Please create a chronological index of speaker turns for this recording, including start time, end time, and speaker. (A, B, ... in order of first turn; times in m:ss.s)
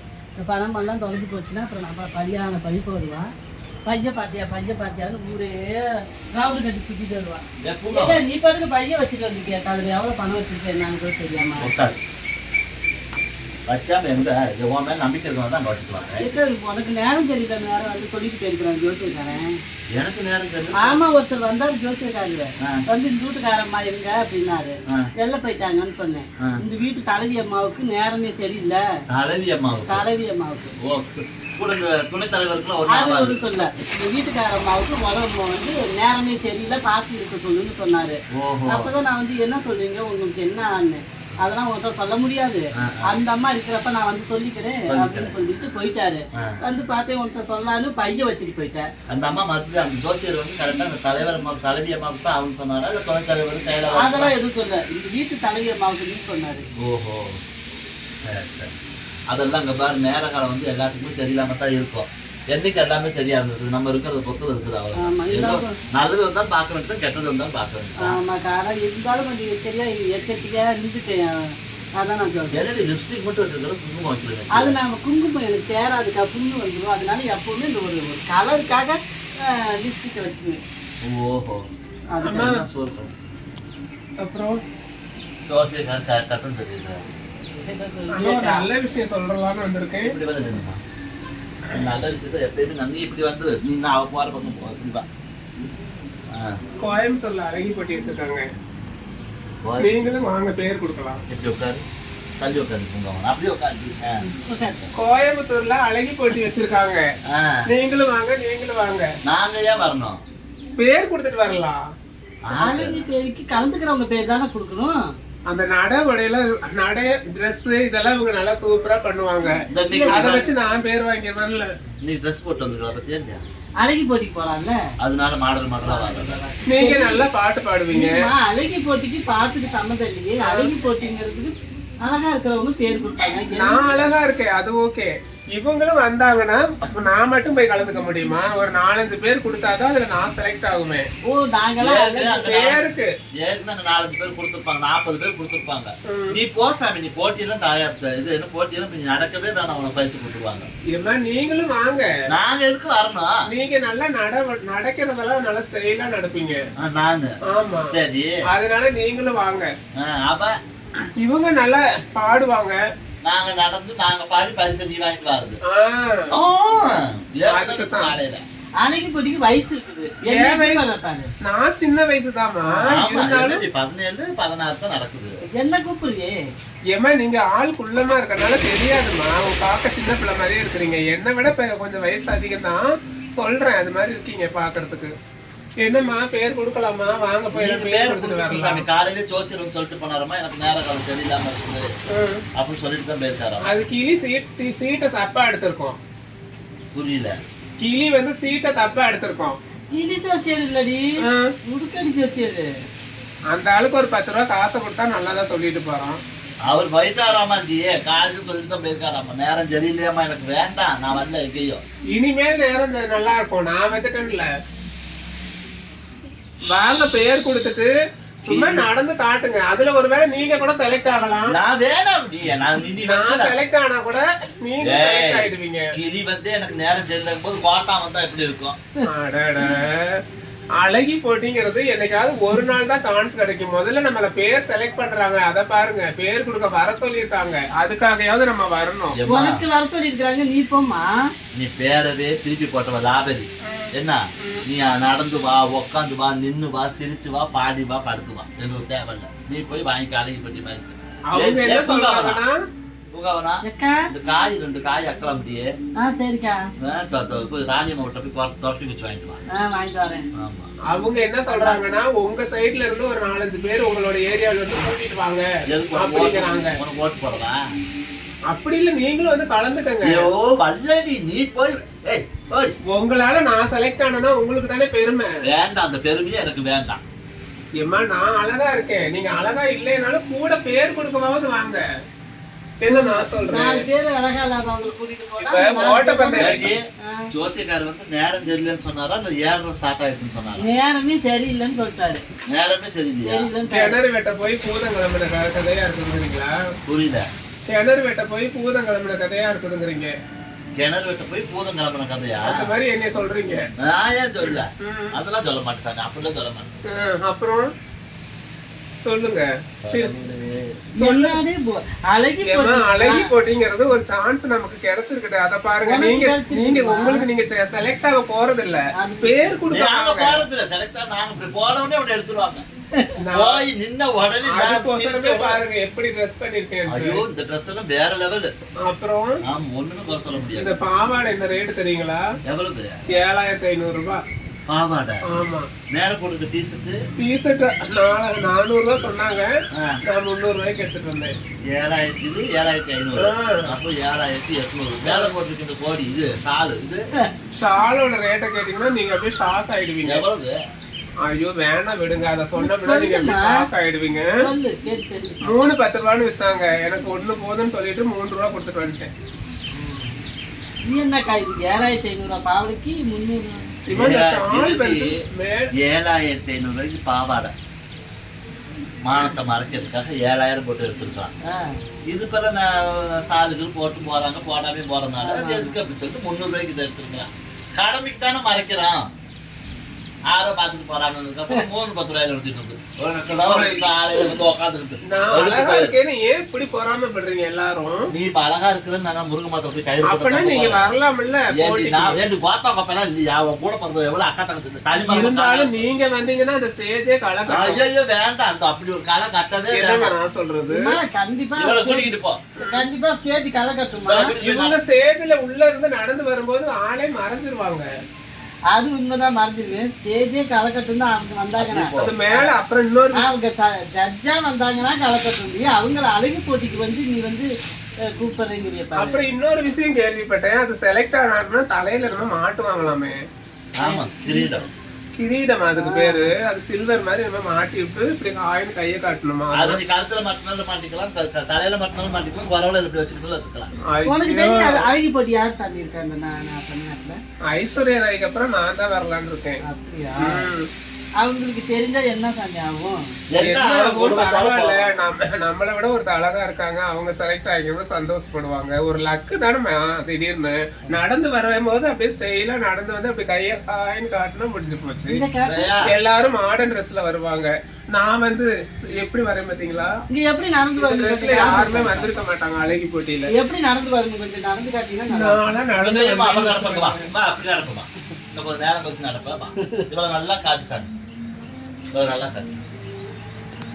0:00.4-0:03.3 A
0:03.9-0:11.7 A
0:07.6-0:08.2 B
0:11.6-0:12.0 B
0:13.7-0:16.3 B
0:16.2-0:19.5 A
0:19.9-0:21.0 B
0:20.8-0:28.8 A
0:29.1-0:30.1 B
0:29.9-0:30.8 A
0:30.8-0:33.7 B
0:32.9-0:48.9 A
0:38.3-0:38.9 B
0:42.8-0:43.2 B
0:44.9-0:45.3 B
0:49.1-0:54.3 B
0:53.9-0:56.6 A
0:56.8-0:57.4 B
0:58.2-0:58.7 B
0:59.3-1:08.2 B
1:05.0-1:05.8 A
1:08.0-1:11.4 A
1:12.0-1:12.6 A
1:12.5-1:14.8 B
1:14.6-1:20.6 A
1:21.0-1:21.6 B
1:22.1-1:22.5 A
1:22.2-1:22.6 C
1:22.4-1:23.1 B
1:24.2-1:24.6 C
1:25.5-1:27.0 B
1:27.5-1:28.7 A
1:28.1-1:30.1 C
1:30.0-1:30.8 B
1:31.7-1:35.1 B
1:36.3-1:36.6 B
1:36.8-1:38.4 C
1:39.6-1:40.0 B
1:39.8-1:41.2 C
1:41.3-1:41.8 B
1:42.4-1:44.2 B
1:44.2-1:44.8 A
1:44.9-1:47.0 C
1:47.3-1:47.6 B
1:47.7-1:49.1 C
1:49.2-1:50.2 B
1:50.8-1:51.8 C
1:52.5-1:53.1 B
1:52.6-1:55.0 A
1:55.5-1:59.5 C
1:59.7-2:00.5 B
1:59.9-2:00.5 A
2:00.1-2:01.7 C
2:02.0-2:03.4 B
2:03.8-2:04.8 A
2:05.0-2:06.4 B
2:05.8-2:07.2 A
2:06.7-2:08.2 C
2:07.9-2:13.8 A
2:10.4-2:10.7 C
2:13.6-2:21.1 C
2:21.2-2:22.4 A
2:21.8-2:30.7 B
2:22.4-2:23.1 C
2:26.1-2:26.4 C
2:30.9-2:32.1 C
2:32.3-2:33.4 B
2:33.5-2:36.6 C
2:36.8-2:37.3 B
2:37.5-2:38.0 C
2:37.9-2:38.4 B
2:38.5-2:39.7 C
2:40.0-2:40.5 B
2:41.2-2:42.8 C
2:43.2-2:45.6 B
2:45.6-2:46.3 C
2:46.3-2:48.4 B
2:47.5-2:48.1 C
2:48.8-2:51.3 A
2:50.2-2:50.8 C
2:51.4-2:53.6 C
2:52.8-2:55.4 B
2:55.5-2:56.4 A
2:56.9-3:05.1 C
3:05.8-3:08.9 C
3:07.5-3:11.9 B
3:12.1-3:12.4 C
3:12.6-3:13.7 B
3:13.6-3:16.0 C
3:16.9-3:17.4 B
3:17.8-3:19.6 C
3:19.9-3:21.0 A
3:21.2-3:21.5 C
3:21.7-3:22.7 A
3:23.5-3:26.2 C
3:26.7-3:31.8 B
3:32.1-3:34.5 C
3:36.7-3:41.6 C
3:38.5-3:38.9 B
3:41.5-3:43.6 B
3:43.1-3:45.9 C
3:44.8-3:48.8 B
3:49.1-3:50.2 C
3:50.8-3:59.2 C
3:59.2-3:59.6 B
3:59.3-4:01.1 A
4:01.5-4:12.4 B
4:03.7-4:04.6 C
4:11.3-4:12.6 C
4:13.1-4:15.7 B
4:13.6-4:14.1 A
4:16.0-4:16.7 A
4:16.8-4:19.4 B
4:19.5-4:20.3 A
4:20.4-4:20.7 B
4:20.9-4:26.8 C
4:21.5-4:21.8 A
4:25.7-4:27.6 B
4:28.5-4:30.3 C
4:30.0-4:32.8 B
4:32.9-4:35.3 C
4:35.4-4:37.0 B
4:37.8-4:41.8 C
4:42.8-4:43.9 C
4:42.9-4:47.3 A
4:45.5-4:46.7 C
4:46.4-4:50.7 B
4:50.6-4:52.2 A
4:52.5-4:53.5 B
4:53.3-4:54.0 A
4:53.7-4:56.5 C
4:56.9-4:57.3 B
4:57.7-5:00.1 C
5:00.8-5:02.7 B
5:02.4-5:03.7 C
5:03.8-5:06.8 B
5:04.8-5:05.2 C
5:06.9-5:07.7 C
5:09.0-5:10.1 C
5:09.8-5:10.9 B
5:11.0-5:13.3 A
5:11.0-5:11.4 C
5:12.5-5:20.4 C
5:15.8-5:17.2 A
5:19.0-5:19.6 A
5:19.7-5:22.6 B
5:23.2-5:23.6 C
5:23.3-5:25.6 B
5:24.4-5:27.2 C
5:26.9-5:28.5 B
5:28.8-5:29.4 C
5:29.4-5:30.7 B
5:30.6-5:32.2 C
5:32.5-5:33.0 B
5:33.1-5:34.2 C
5:34.7-5:35.2 B
5:35.3-5:35.7 C
5:35.9-5:37.0 B
5:37.2-5:39.5 C
5:39.7-5:40.0 B
5:40.1-5:41.3 C
5:41.7-5:47.0 B
5:43.2-5:43.7 C
5:45.0-5:45.3 C
5:47.6-5:50.2 C
5:50.0-5:50.6 B
5:51.2-5:54.4 C
5:52.6-5:53.6 A
5:54.4-5:55.4 A
5:55.5-5:59.1 C
5:59.8-6:00.1 B
6:00.9-6:03.6 A
6:03.9-6:05.7 C
6:03.9-6:05.1 B
6:05.8-6:07.5 B
6:09.0-6:11.3 B
6:11.4-6:11.8 A
6:12.1-6:19.1 B
6:15.2-6:15.8 A
6:20.3-6:26.0 B
6:23.4-6:23.8 C
6:25.1-6:28.1 C
6:28.1-6:30.9 B
6:30.1-6:32.2 C
6:31.5-6:35.7 B
6:34.9-6:37.8 C
6:37.5-6:40.2 B
6:39.7-6:41.0 C
6:40.7-6:42.1 A
6:41.6-6:42.4 B
6:42.6-6:44.3 A
6:44.1-6:44.8 B
6:44.4-6:47.9 C
6:48.7-6:52.5 A
6:51.5-6:52.2 B
6:52.0-6:53.3 C
6:53.2-6:57.5 A
6:58.2-6:59.2 A
6:59.0-7:03.2 C
7:03.8-7:04.7 B
7:03.8-7:04.5 A
7:05.2-7:09.8 C
7:05.8-7:06.3 A
7:09.5-7:13.7 B
7:13.9-7:14.9 C
7:14.1-7:17.2 A
7:17.5-7:19.6 C
7:19.6-7:20.4 A
7:20.2-7:20.7 C
7:21.2-7:23.0 A
7:23.3-7:24.8 B
7:23.4-7:35.2 C
7:35.1-7:35.7 A
7:35.4-7:35.9 B
7:35.8-7:39.9 C
7:40.1-7:42.2 A
7:40.8-7:43.3 C
7:43.3-7:45.4 A
7:45.1-7:47.1 C
7:45.8-7:50.9 B
7:51.9-7:52.5 B